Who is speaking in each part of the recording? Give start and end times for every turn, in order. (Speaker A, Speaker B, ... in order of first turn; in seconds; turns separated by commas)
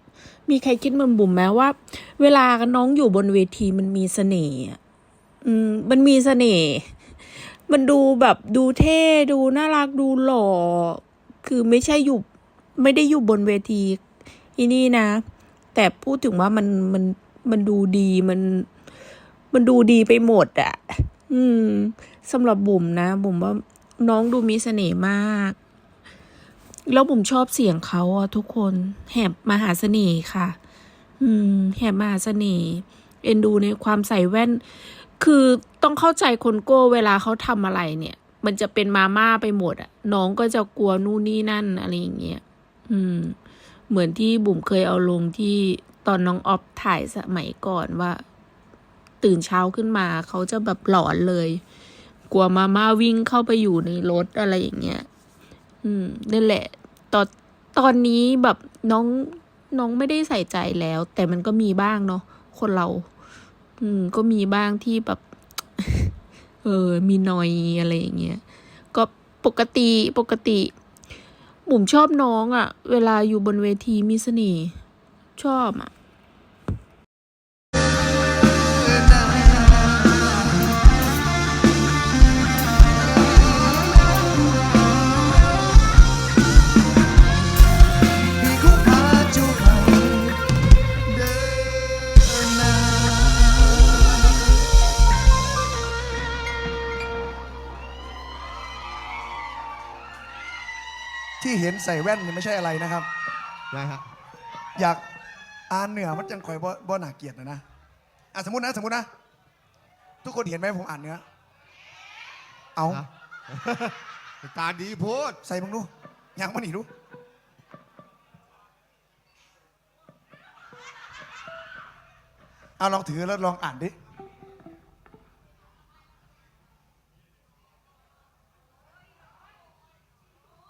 Speaker A: 0.5-4.8, Speaker A: 5.4-12.2, Speaker A: 12.8-14.0, Speaker A: 14.6-18.7, Speaker A: 19.5-25.6, Speaker A: 26.9-30.6, Speaker A: 31.2-34.6, Speaker A: 35.2-43.4, Speaker A: 43.9-48.2, Speaker A: 49.2-51.6, Speaker A: 52.3-55.1, Speaker A: 55.8-63.1, Speaker A: 63.8-65.2, Speaker A: 65.8-68.4, Speaker A: 68.9-70.7, Speaker A: 71.7-74.8, Speaker A: 75.3-75.9, Speaker B: 78.8-80.2, Speaker B: 88.4-90.4, Speaker C: 91.1-93.4, Speaker B: 101.4-103.1, Speaker C: 103.7-104.0, Speaker B: 104.8-105.0, Speaker B: 105.7-107.6, Speaker B: 108.3-109.1, Speaker B: 110.2-111.2, Speaker B: 112.8-113.0, Speaker C: 112.9-115.4, Speaker B: 115.4-116.9, Speaker B: 122.8-123.9